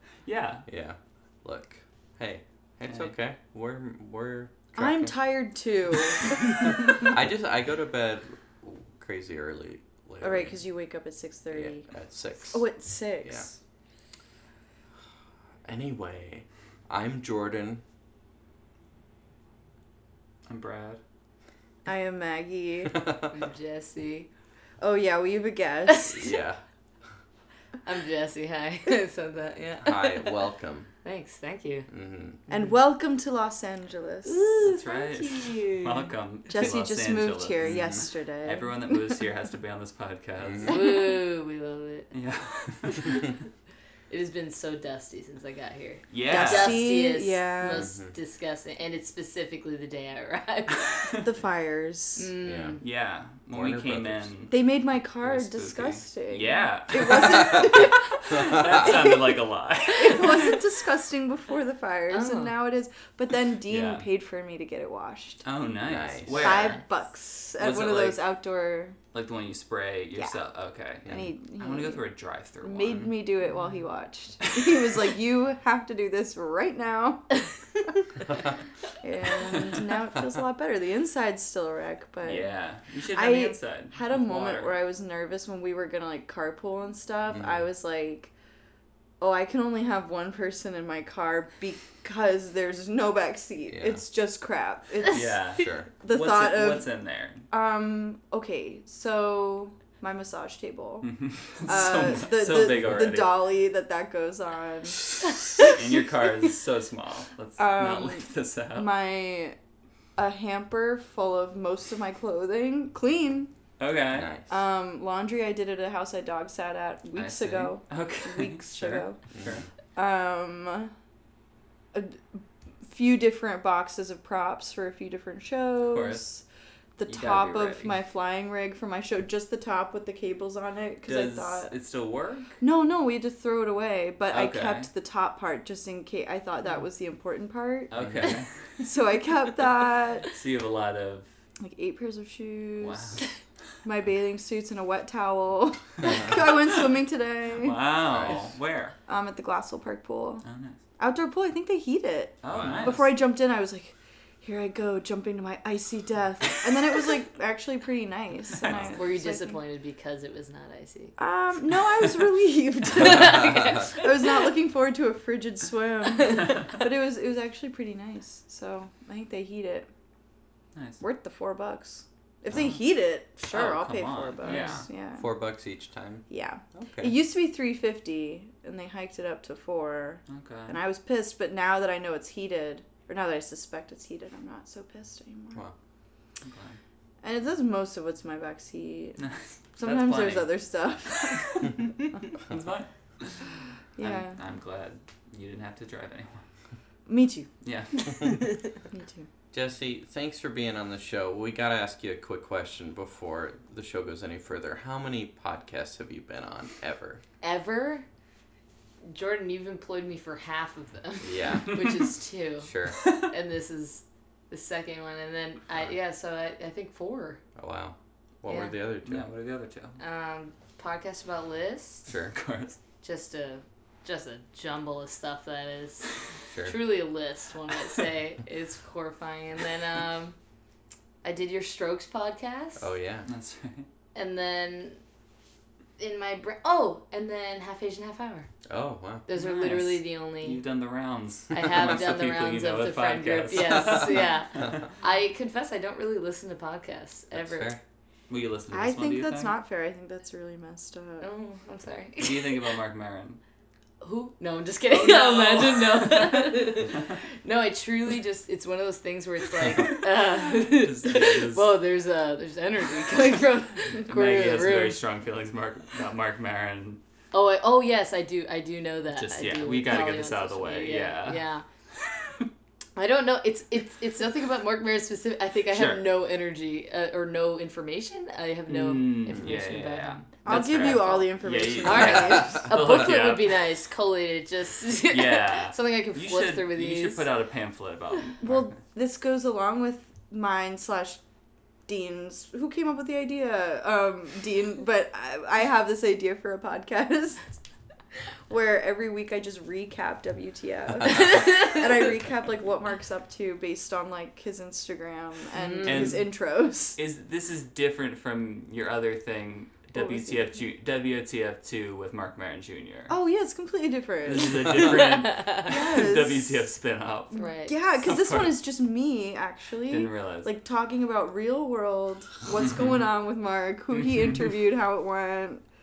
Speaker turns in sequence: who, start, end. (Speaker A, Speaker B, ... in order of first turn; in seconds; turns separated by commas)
Speaker A: 0.2-0.7, Speaker B: 0.7-5.2, Speaker A: 2.9-3.1, Speaker C: 4.8-6.8, Speaker B: 7.0-10.6, Speaker C: 10.2-11.9, Speaker B: 11.5-12.7, Speaker C: 12.5-13.6, Speaker B: 13.2-13.5, Speaker B: 15.7-17.8, Speaker A: 20.5-21.0, Speaker C: 21.9-23.0, Speaker D: 23.3-24.3, Speaker C: 24.8-26.2, Speaker D: 25.9-26.4, Speaker B: 26.1-26.6, Speaker D: 27.9-30.4, Speaker B: 29.8-30.9, Speaker D: 31.0-31.9, Speaker B: 31.9-32.4, Speaker C: 32.5-35.7, Speaker D: 34.3-36.1, Speaker A: 34.6-41.1, Speaker C: 36.5-39.2, Speaker B: 37.6-38.0, Speaker B: 40.4-40.8, Speaker D: 40.7-42.1, Speaker A: 42.1-43.2, Speaker D: 42.9-43.2, Speaker D: 44.1-51.3, Speaker A: 46.1-46.9, Speaker C: 46.3-47.9, Speaker B: 47.8-48.1, Speaker A: 50.9-51.2, Speaker C: 51.2-52.3, Speaker D: 52.2-52.8, Speaker B: 52.4-52.8, Speaker A: 52.8-54.7, Speaker B: 53.5-54.3, Speaker C: 54.5-59.4, Speaker A: 55.2-60.6, Speaker B: 58.3-58.8, Speaker C: 59.9-65.5, Speaker D: 62.1-62.6, Speaker A: 63.6-64.1, Speaker A: 65.5-66.8, Speaker B: 65.8-66.6, Speaker D: 66.3-66.8, Speaker C: 66.3-69.0, Speaker A: 67.6-68.3, Speaker A: 69.1-73.3, Speaker C: 71.0-72.0, Speaker C: 72.6-78.2, Speaker D: 73.5-73.8, Speaker C: 79.0-82.5, Speaker A: 82.2-84.8, Speaker C: 83.1-88.3, Speaker B: 87.3-87.6, Speaker C: 89.2-95.4, Speaker B: 93.7-94.0, Speaker A: 95.0-97.5, Speaker B: 95.6-95.9, Speaker C: 96.0-96.9, Speaker C: 97.5-105.1, Speaker A: 101.1-103.4, Speaker A: 105.6-108.9, Speaker C: 107.6-109.6, Speaker C: 110.2-113.5, Speaker A: 113.8-114.3, Speaker B: 114.1-114.5, Speaker C: 114.5-119.2, Speaker A: 117.1-119.7, Speaker B: 119.3-119.7, Speaker C: 120.0-120.9, Speaker C: 121.9-126.4, Speaker A: 125.8-126.3, Speaker C: 127.0-131.7, Speaker A: 127.1-128.0, Speaker A: 131.0-132.6, Speaker C: 132.6-137.9, Speaker A: 134.3-134.9, Speaker A: 137.9-138.5, Speaker B: 138.0-138.3, Speaker C: 138.8-140.3, Speaker A: 140.3-141.3, Speaker C: 141.6-143.2, Speaker A: 142.8-143.3, Speaker C: 143.8-147.8, Speaker B: 146.1-146.3, Speaker A: 147.5-149.0, Speaker B: 148.1-148.4, Speaker C: 149.1-150.4, Speaker A: 150.4-150.8, Speaker C: 151.0-159.6, Speaker A: 152.4-153.1, Speaker B: 152.5-153.0, Speaker D: 158.9-161.2, Speaker C: 161.2-169.9, Speaker D: 162.9-164.1, Speaker B: 163.1-163.9, Speaker A: 170.8-171.0, Speaker C: 171.0-175.3, Speaker A: 173.5-174.9, Speaker B: 175.1-177.2, Speaker C: 176.3-185.6, Speaker A: 180.3-180.8, Speaker A: 186.4-186.8, Speaker C: 187.2-189.2, Speaker A: 189.2-190.5, Speaker C: 189.8-191.8, Speaker A: 191.2-196.5, Speaker C: 194.0-194.4, Speaker C: 197.1-197.5, Speaker A: 197.6-198.3, Speaker C: 198.9-199.3, Speaker B: 199.5-207.2, Speaker D: 207.4-208.1, Speaker D: 209.1-217.4, Speaker B: 211.2-211.8, Speaker A: 211.7-212.1, Speaker B: 212.6-213.0, Speaker A: 213.0-213.3, Speaker B: 217.6-219.3, Speaker D: 218.5-218.8, Speaker A: 219.0-220.0, Speaker D: 220.0-222.1, Speaker A: 222.1-222.8, Speaker D: 223.0-230.4, Speaker B: 226.5-226.8, Speaker D: 231.2-232.9, Speaker B: 232.8-233.3, Speaker A: 233.3-233.9, Speaker D: 234.2-235.0, Speaker D: 236.0-238.5, Speaker B: 238.7-239.3, Speaker D: 239.3-240.6, Speaker A: 239.3-244.3, Speaker D: 241.5-247.8, Speaker B: 247.3-247.8, Speaker A: 248.3-249.6, Speaker C: 248.7-251.3, Speaker D: 251.2-252.8, Speaker A: 252.2-253.4, Speaker D: 254.0-265.0, Speaker A: 254.9-257.2, Speaker A: 259.8-261.8, Speaker A: 263.9-267.0, Speaker D: 267.3-271.6, Speaker A: 269.1-271.5, Speaker A: 272.0-272.5, Speaker D: 273.0-287.3, Speaker A: 275.7-276.1, Speaker A: 278.7-283.6, Speaker C: 280.4-282.7, Speaker A: 285.1-288.8, Speaker C: 288.4-291.2, Speaker C: 291.9-297.4, Speaker C: 298.5-307.0, Speaker D: 301.1-301.9, Speaker D: 305.6-306.2, Speaker A: 305.8-306.3, Speaker A: 307.0-313.2, Speaker C: 309.9-310.6, Speaker C: 313.1-316.6, Speaker A: 314.2-317.4, Speaker B: 314.7-315.0, Speaker D: 315.0-315.6, Speaker D: 317.3-317.7, Speaker C: 317.4-325.6, Speaker A: 318.0-318.6, Speaker A: 319.9-320.5